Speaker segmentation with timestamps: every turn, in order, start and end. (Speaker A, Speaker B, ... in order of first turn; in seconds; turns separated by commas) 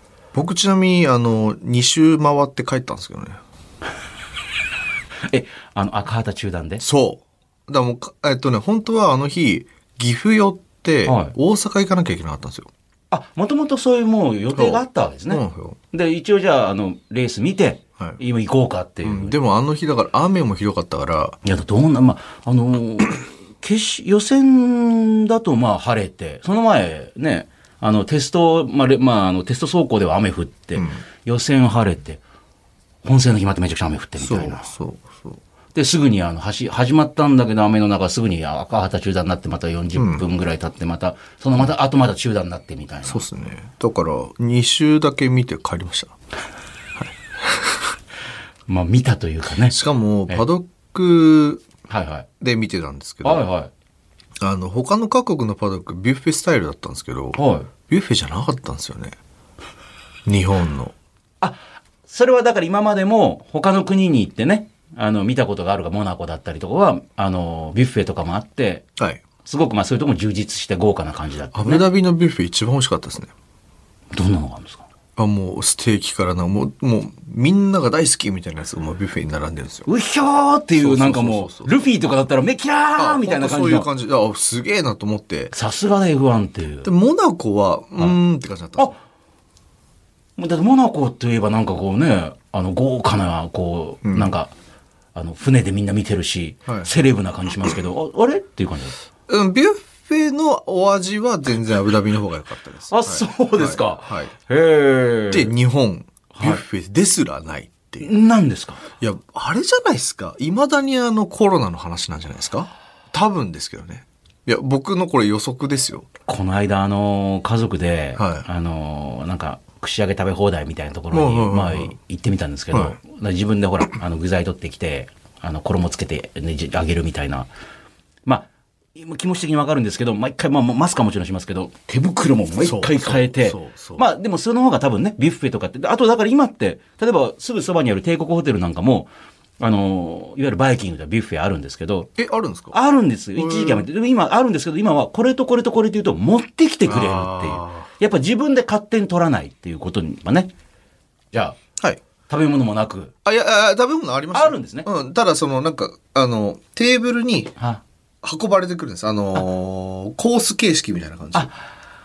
Speaker A: 0.3-3.4, Speaker B: 5.3-6.8, Speaker A: 6.8-12.7, Speaker B: 11.1-11.3, Speaker B: 13.1-19.4, Speaker A: 14.5-15.8, Speaker A: 19.0-21.4, Speaker B: 21.4-32.2, Speaker A: 30.7-31.0, Speaker B: 33.0-34.7, Speaker A: 34.2-35.4, Speaker B: 35.7-43.2, Speaker A: 39.9-40.2, Speaker A: 43.0-46.1, Speaker A: 47.0-47.9, Speaker B: 48.7-49.8, Speaker A: 49.7-51.6, Speaker B: 51.9-52.2, Speaker A: 52.4-53.4, Speaker B: 53.2-53.7, Speaker A: 54.4-59.1, Speaker B: 57.3-57.7, Speaker A: 60.2-60.9, Speaker B: 61.4-68.8, Speaker B: 69.4-71.8, Speaker A: 71.5-73.3, Speaker B: 74.1-74.8, Speaker A: 75.2-79.9, Speaker B: 79.8-83.9, Speaker A: 80.7-81.7, Speaker A: 83.0-85.5, Speaker B: 85.5-86.9, Speaker A: 86.8-88.9, Speaker B: 90.4-94.5, Speaker A: 94.0-94.3, Speaker B: 95.1-99.0, Speaker A: 99.3-104.3, Speaker B: 102.9-105.5, Speaker A: 105.3-108.1, Speaker B: 106.3-106.6, Speaker B: 108.0-108.8, Speaker A: 109.0-116.1, Speaker B: 116.3-127.5, Speaker A: 118.2-118.5, Speaker A: 121.1-122.0, Speaker A: 122.7-123.0, Speaker B: 128.2-142.1, Speaker A: 132.6-134.0, Speaker A: 142.2-142.7, Speaker B: 142.7-150.5, Speaker A: 143.4-143.8, Speaker A: 146.8-147.9, Speaker B: 151.3-151.6, Speaker B: 152.3-153.1, Speaker A: 153.2-157.5, Speaker B: 154.3-154.9, Speaker A: 158.2-161.5